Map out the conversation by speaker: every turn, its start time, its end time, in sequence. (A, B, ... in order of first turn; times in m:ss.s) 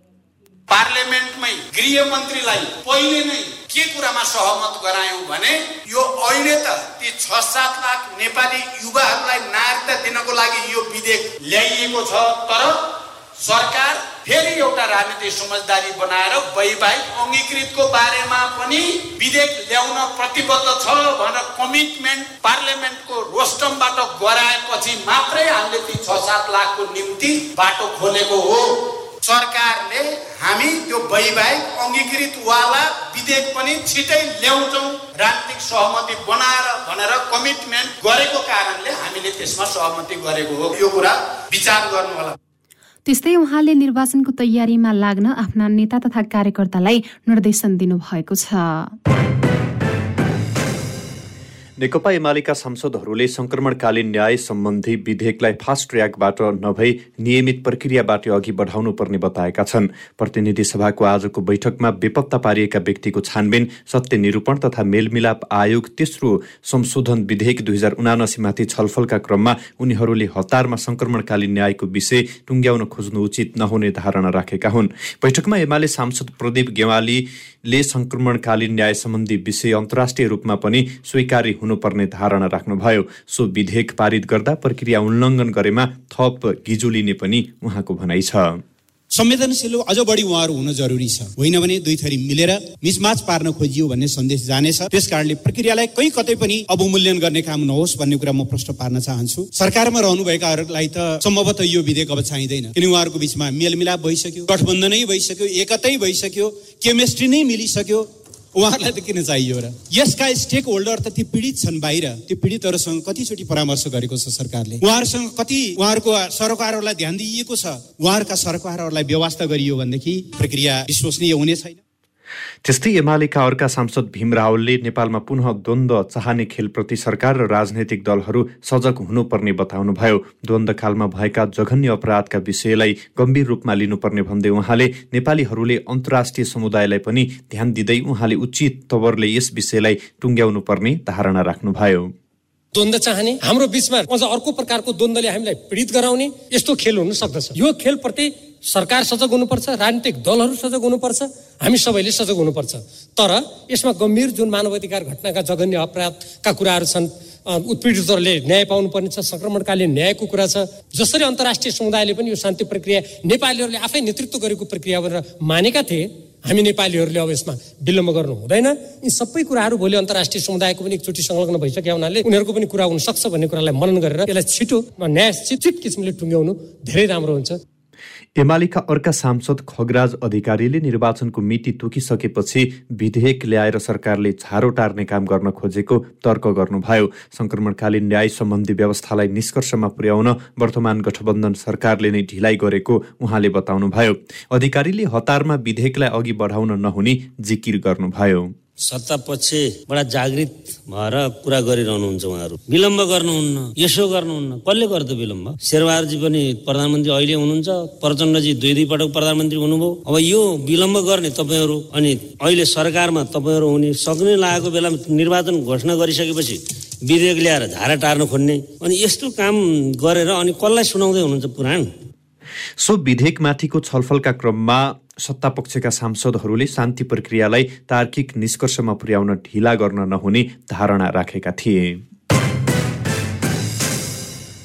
0:00.7-0:42.4 A
0:43.0-0:48.9 B
0:51.8-1:28.6 C
1:29.1-2:01.8 D
2:02.6-2:22.1 C
2:22.7-2:57.6 E
2:58.4-3:18.5 C
3:18.8-3:41.9 F
3:42.8-3:52.0 C